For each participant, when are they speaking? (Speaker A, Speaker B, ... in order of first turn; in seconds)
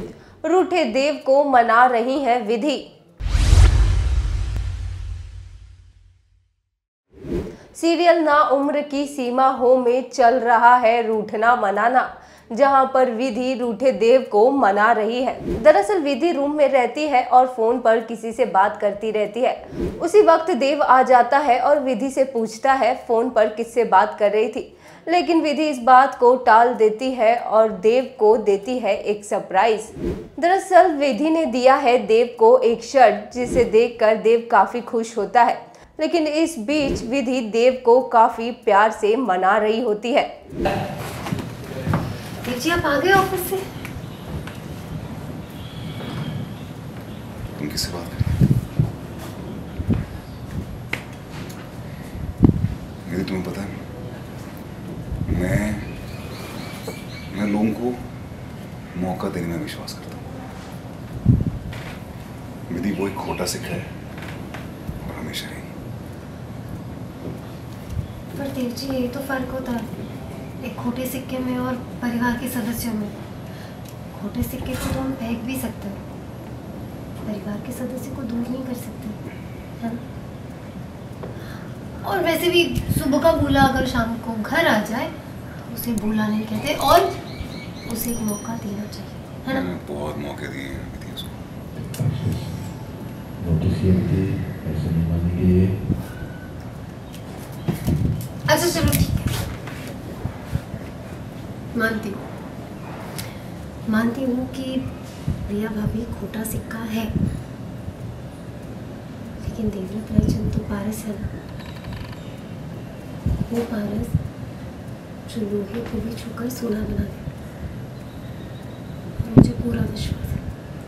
Speaker A: 0.4-2.9, 7.7-40.3
Speaker B: 42.4-43.6, 68.3-69.9, 70.6-73.2, 74.1-76.0, 77.2-79.2, 82.0-85.1, 85.7-87.1, 87.8-89.6, 98.5-99.3, 101.7-102.2, 103.9-104.8, 105.5-107.1, 109.4-111.3, 113.5-114.2, 115.3-117.2, 119.2-120.4
Speaker C: 47.6-48.5, 53.0-53.8, 55.3-55.9, 57.3-58.0, 58.9-60.3, 62.7-63.9, 65.0-65.7, 89.5-91.4
Speaker D: 91.9-92.4, 93.4-95.7